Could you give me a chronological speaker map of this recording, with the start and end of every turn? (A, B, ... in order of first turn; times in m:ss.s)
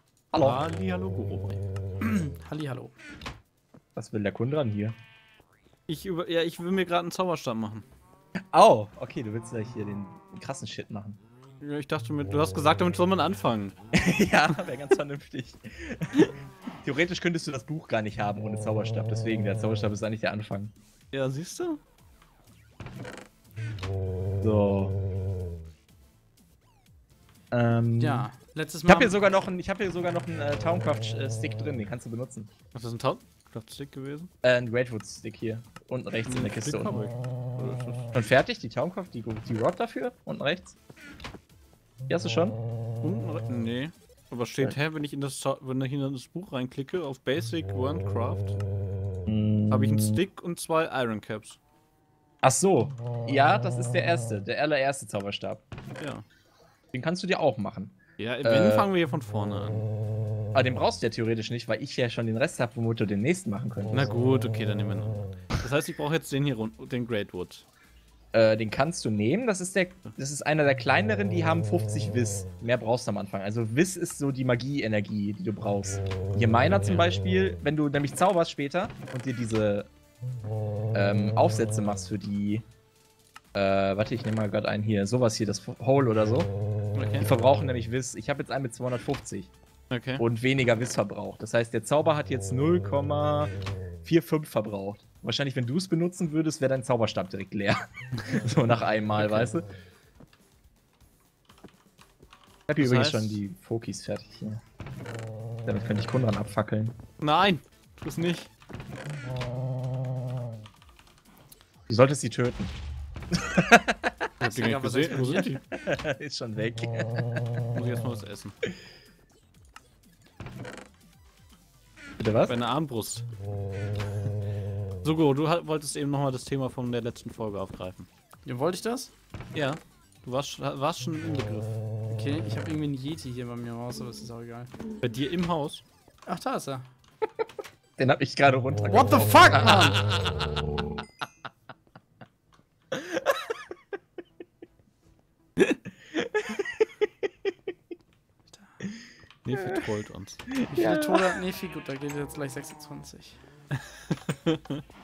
0:00.3-0:00.6 A
0:00.4-0:01.6 B
0:02.0-0:02.9 C
0:04.0-0:04.9 A
0:05.9-0:07.8 B
0:08.5-0:11.2 A
0:11.6-0:13.7 B
0:13.9-0:16.3 A
0:16.8-0:20.7 A
0:21.1-0:21.8 B
0:24.4-0:25.0 A
0:27.5-0:28.3 A
0:28.0-0:29.2 C
0:28.9-0:32.5 A
0:32.7-0:34.3 B
0:34.4-0:37.0 A
0:36.2-0:38.0 B
0:38.1-0:40.7 A
0:42.1-0:42.6 A
0:43.0-0:48.6 B
0:49.2-0:50.2 A
0:49.7-0:51.6 B
0:52.4-0:55.6 A
0:56.0-0:56.2 B
0:56.9-0:58.9 A
0:58.2-0:59.9 B
1:00.5-1:04.0 A
1:03.9-1:07.6 B
1:08.3-1:19.9 A
1:20.9-1:22.6 A
1:23.5-1:26.5 A
1:26.9-1:27.3 B
1:27.2-1:29.5 A
1:29.9-1:30.2 B
1:30.2-1:33.5 A
1:34.0-1:37.8 A
1:38.3-1:39.7 A
1:39.2-1:39.5 B
1:42.7-1:44.6 A
1:42.8-1:43.4 B
1:45.6-1:47.0 A
1:47.2-1:48.5 B
1:51.9-1:52.7 A
1:53.3-1:54.1 A
1:54.4-1:55.6 B
1:54.4-1:55.5 C
1:55.1-1:57.3 A
1:57.7-1:58.5 B
2:02.2-2:02.5 A
2:02.5-2:03.3 B
2:05.0-2:08.0 B
2:08.4-2:09.1 C
2:09.5-2:11.7 B
2:12.1-2:14.7 C
2:15.0-2:15.8 B
2:16.2-2:16.9 C
2:18.0-2:19.7 A
2:18.9-2:20.0 C
2:22.9-2:23.3 A
2:26.2-2:26.8 A
2:28.5-2:28.8 C
2:29.4-2:30.6 B
2:30.5-2:31.4 A
2:30.7-2:33.4 C
2:34.1-2:34.8 B